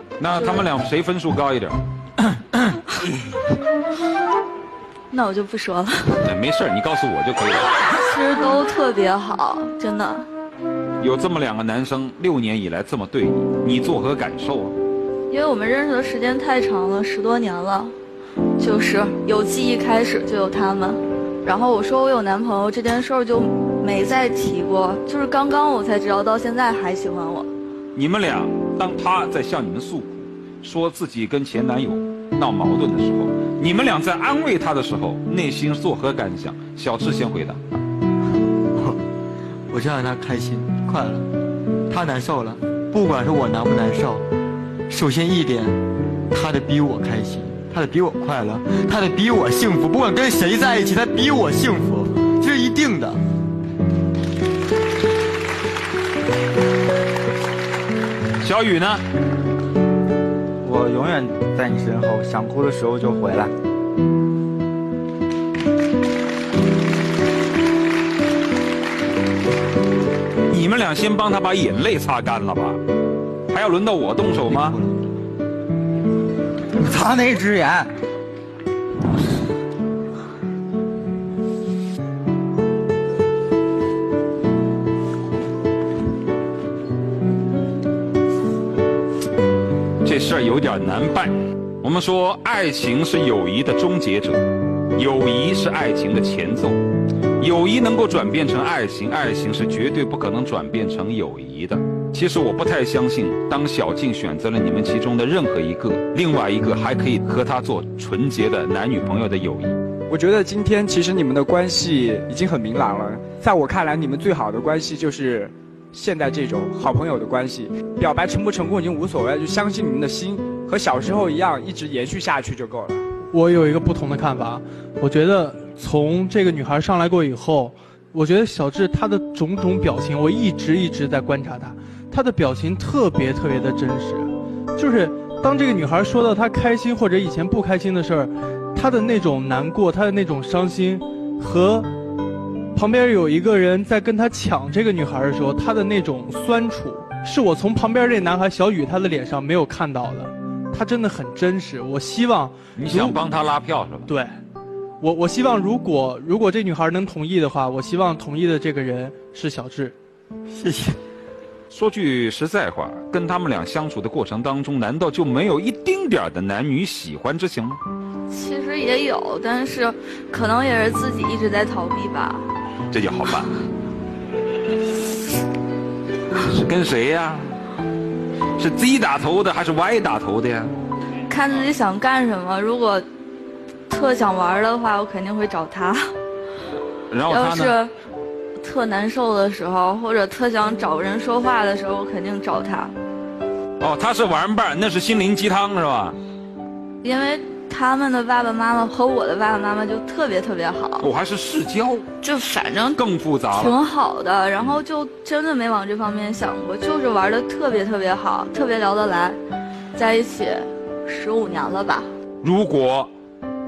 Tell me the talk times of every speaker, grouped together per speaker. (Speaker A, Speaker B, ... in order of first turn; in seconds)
Speaker A: 0.2-1.8, 6.2-7.7, 11.0-14.7, 27.9-37.6, 58.4-59.0, 70.5-72.8, 73.5-74.8, 90.0-94.4, 95.0-96.8, 97.4-109.7, 152.8-154.1, 161.7-167.8, 172.9-173.6, 176.4-177.5, 178.6-180.7, 187.1-187.8, 193.8-196.2, 201.0-202.1, 202.9-203.8, 212.4-213.1
Speaker B: 0.3-0.7, 5.1-6.2, 7.9-10.3, 15.3-17.9, 18.6-27.5, 168.3-172.5, 181.3-183.0, 183.9-186.1, 187.3-187.9, 188.6-192.9, 197.0-201.1, 202.2-203.0, 203.5-209.4, 209.9-212.1
Speaker C: 39.7-41.3, 41.9-44.2, 44.9-45.8, 46.3-53.2, 160.5-160.9
Speaker D: 60.6-63.5, 76.8-77.8
Speaker E: 110.1-123.0
Speaker F: 123.3-141.9, 142.7-153.2, 154.1-154.4, 155.0-159.9